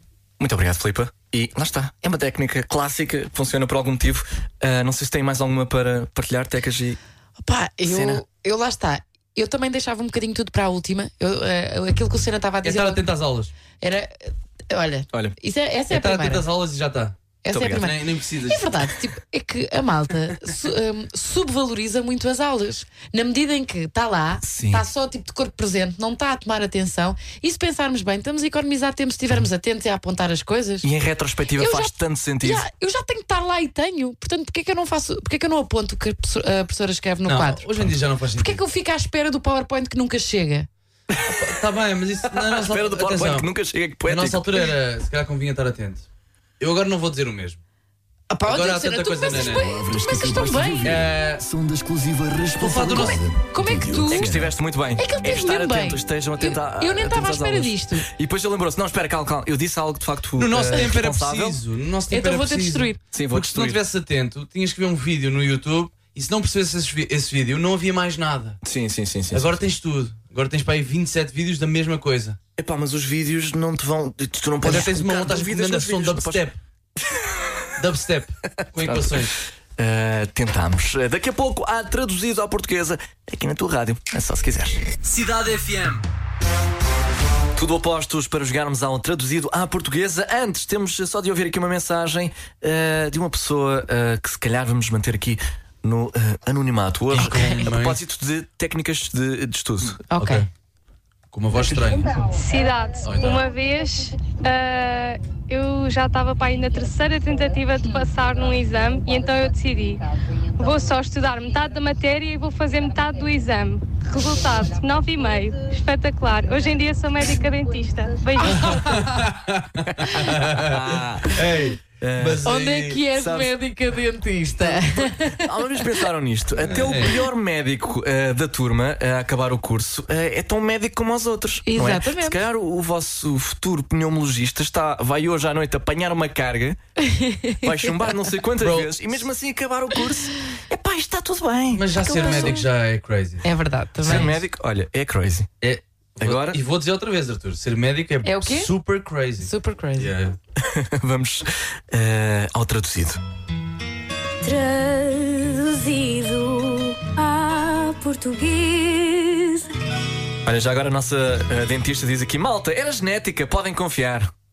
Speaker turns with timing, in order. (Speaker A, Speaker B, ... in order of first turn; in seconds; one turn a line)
Speaker A: 0.4-7.0
Speaker B: 7.4-13.0
Speaker A: 7.8-8.2
Speaker C: 12.6-13.5
Speaker B: 13.8-16.5
Speaker C: 15.9-17.1
Speaker B: 17.4-30.9
Speaker A: 17.5-17.9
Speaker C: 17.8-18.7
Speaker A: 24.4-24.8
Speaker A: 30.8-32.6
Speaker B: 31.6-40.7
Speaker C: 37.2-38.6
Speaker C: 41.2-43.5
Speaker A: 42.3-44.7
Speaker C: 44.1-46.1
Speaker C: 46.6-47.6
Speaker B: 48.3-50.9
Speaker C: 48.5-49.6
Speaker A: 49.3-61.6
Speaker C: 50.8-51.5
Speaker C: 52.6-53.3
Speaker B: 52.7-54.4
Speaker C: 54.0-54.5
Speaker B: 55.0-58.0
Speaker C: 60.4-68.6
Speaker B: 62.1-63.0
Speaker A: 63.1-63.8
Speaker A: 68.6-69.6
Speaker C: 69.3-72.4
Speaker A: 72.6-76.4
Speaker C: 74.6-76.6
Speaker C: 77.8-79.3
Speaker A: 78.8-84.8
Speaker C: 85.0-86.0
Speaker A: 87.5-100.0
Speaker C: 97.1-98.0
Speaker C: 99.8-100.5
Speaker B: 100.1-100.5
Speaker C: 101.3-102.2
Speaker D: 102.3-110.0
Speaker C: 103.0-103.4
Speaker D: 110.6-119.0
Speaker C: 118.4-123.0
Speaker A: 119.9-121.4
Speaker A: 122.0-122.5
Speaker B: 122.4-125.5
Speaker A: 123.1-123.5
Speaker A: 124.6-136.8
Speaker C: 126.6-127.2
Speaker B: 131.7-132.4
Speaker B: 137.0-138.1
Speaker A: 137.6-142.6
Speaker C: 138.6-139.2
Speaker C: 141.7-143.4
Speaker B: 141.9-142.7
Speaker B: 143.4-144.3
Speaker A: 144.0-145.5
Speaker C: 145.6-150.4
Speaker A: 146.2-146.6
Speaker B: 148.2-148.7
Speaker B: 149.4-150.1
Speaker A: 150.6-153.2
Speaker E: 154.4-159.6
Speaker A: 160.4-164.3